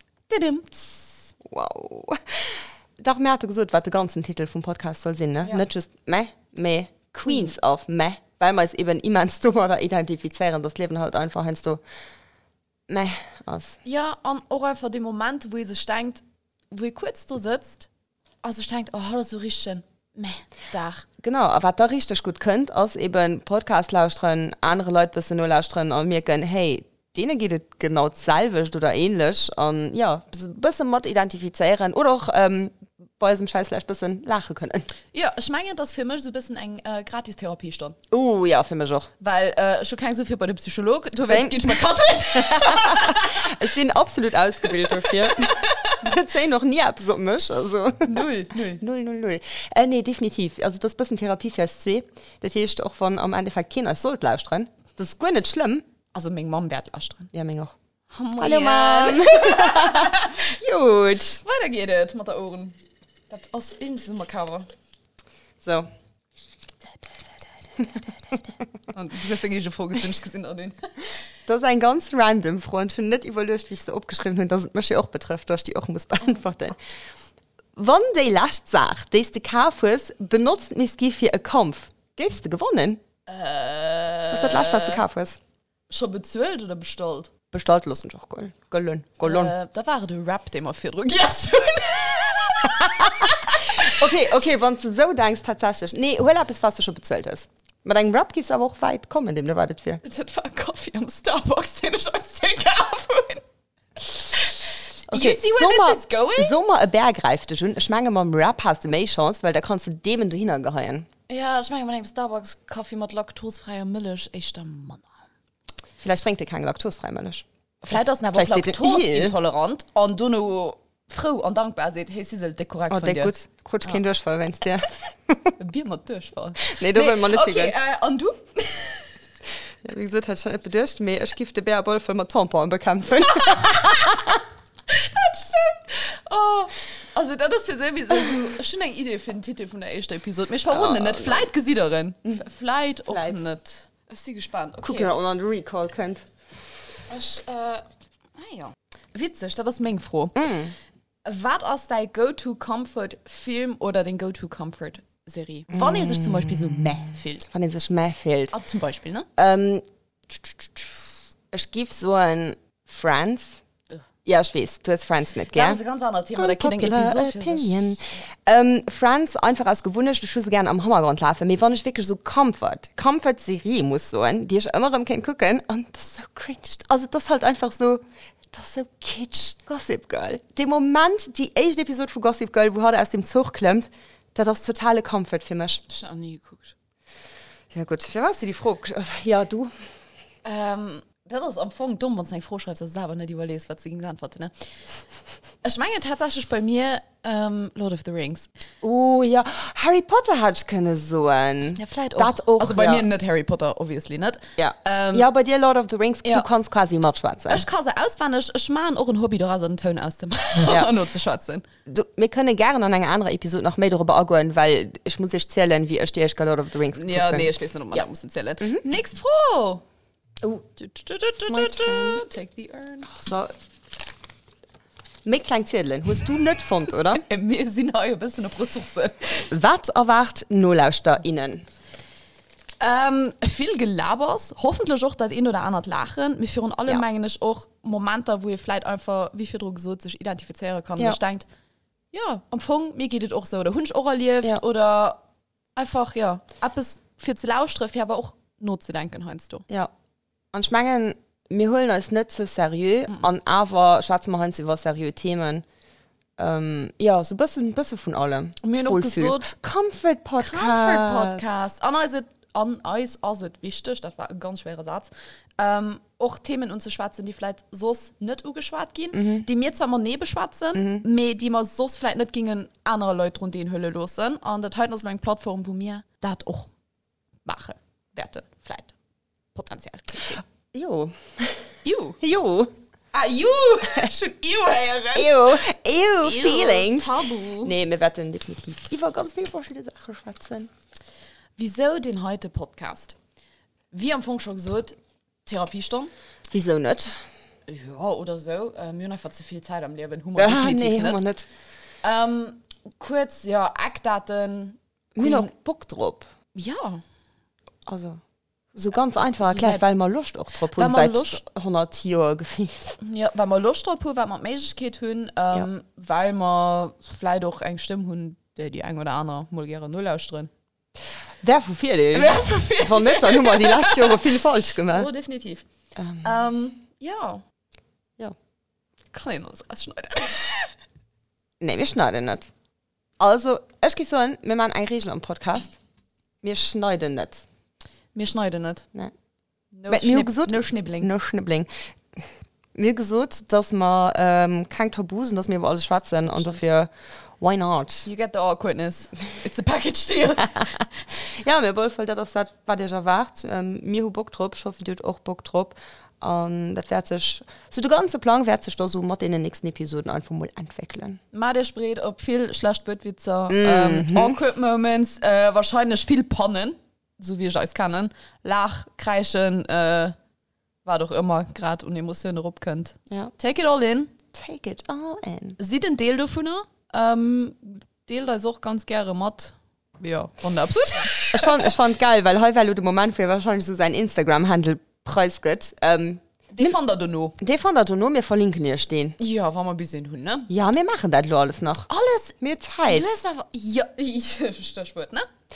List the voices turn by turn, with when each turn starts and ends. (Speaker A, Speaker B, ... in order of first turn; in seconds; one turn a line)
Speaker A: 0.3-1.3
Speaker B: 1.4-11.8
Speaker B: 12.9-13.8
Speaker A: 13.8-17.9
Speaker A: 18.4-21.1
Speaker B: 21.2-34.9
Speaker A: 35.1-38.0
Speaker B: 38.1-39.1
Speaker A: 39.2-43.5
Speaker B: 41.2-55.9
Speaker A: 45.0-46.0
Speaker A: 48.1-48.8
Speaker A: 56.1-57.3
Speaker B: 57.3-57.7
Speaker A: 58.1-60.5
Speaker B: 58.4-61.4
Speaker A: 61.4-62.8
Speaker A: 63.3-64.7
Speaker B: 65.6-65.9
Speaker A: 68.9-71.1
Speaker B: 71.5-76.8
Speaker B: 77.8-83.0
Speaker A: 83.3-85.0
Speaker B: 84.3-85.4
Speaker A: 85.9-87.3
Speaker B: 87.5-89.5
Speaker A: 89.2-94.1
Speaker B: 93.8-100.0
Speaker A: 100.0-103.4
Speaker A: 104.0-106.6
Speaker B: 105.1-111.1
Speaker A: 111.3-115.1
Speaker B: 116.0-117.5
Speaker A: 117.8-123.3
Speaker B: 118.3-119.3
Speaker B: 122.9-125.5
Speaker A: 125.6-129.2
Speaker B: 126.6-127.8
Speaker B: 129.8-134.4
Speaker A: 133.5-134.2
Speaker A: 134.9-145.2
Speaker B: 140.7-141.5
Speaker B: 143.1-143.4
Speaker B: 144.8-146.3
Speaker A: 147.1-150.5
Speaker B: 150.4-150.7
Speaker A: 151.2-157.4
Speaker B: 155.7-156.5
Speaker B: 157.5-158.6
Speaker A: 158.5-159.3
Speaker B: 159.4-163.6
Speaker B: 164.2-165.8
Speaker A: 165.5-168.2
Speaker B: 166.4-185.8
Speaker A: 185.9-186.7
Speaker B: 187.7-189.7
Speaker A: 190.4-194.5
Speaker A: 195.6-198.5
Speaker B: 198.8-203.1
Speaker A: 201.8-205.3
Speaker B: 204.6-207.7
Speaker A: 207.5-211.7
Speaker B: 211.9-218.0
Speaker A: 216.9-219.8
Speaker A: 220.8-223.1
Speaker B: 221.5-222.2
Speaker B: 223.1-223.5
Speaker B: 225.2-227.2
Speaker A: 227.1-229.5
Speaker B: 229.5-231.7
Speaker A: 232.8-241.4
Speaker A: 242.1-245.2
Speaker A: 245.8-249.7
Speaker B: 250.5-255.6
Speaker B: 256.4-261.5
Speaker A: 258.6-259.5
Speaker A: 260.4-276.7
Speaker B: 269.1-269.4
Speaker B: 270.8-271.0
Speaker A: 277.4-278.9
Speaker A: 279.6-280.4
Speaker B: 280.7-282.7
Speaker A: 281.9-282.2
Speaker A: 283.1-285.4
Speaker B: 285.1-290.7
Speaker A: 286.2-287.7
Speaker A: 291.6-293.1
Speaker A: 293.9-296.1
Speaker B: 296.5-297.1
Speaker A: 297.7-301.2
Speaker B: 300.4-301.5
Speaker A: 302.0-305.5
Speaker B: 305.2-306.3
Speaker A: 306.6-307.0
Speaker B: 307.9-308.2
Speaker B: 308.7-313.0
Speaker A: 309.2-309.8
Speaker A: 310.7-311.4
Speaker A: 313.0-320.5
Speaker B: 321.4-325.1
Speaker A: 322.1-324.3
Speaker A: 324.9-325.7
Speaker B: 326.0-326.2
Speaker A: 326.2-327.4
Speaker A: 329.1-330.7
Speaker B: 331.6-332.5
Speaker B: 333.2-335.8
Speaker B: 336.4-337.4
Speaker A: 338.1-338.9
Speaker A: 339.7-341.1
Speaker B: 339.9-348.1
Speaker A: 348.1-350.9
Speaker B: 351.3-361.2
Speaker A: 361.3-370.1
Speaker B: 363.5-364.4
Speaker A: 370.9-374.1
Speaker B: 374.3-375.6
Speaker A: 375.6-381.7
Speaker B: 381.3-386.8
Speaker A: 386.5-387.4
Speaker B: 387.4-389.2
Speaker A: 389.2-390.5
Speaker B: 390.5-391.9
Speaker A: 391.9-395.3
Speaker B: 392.4-393.2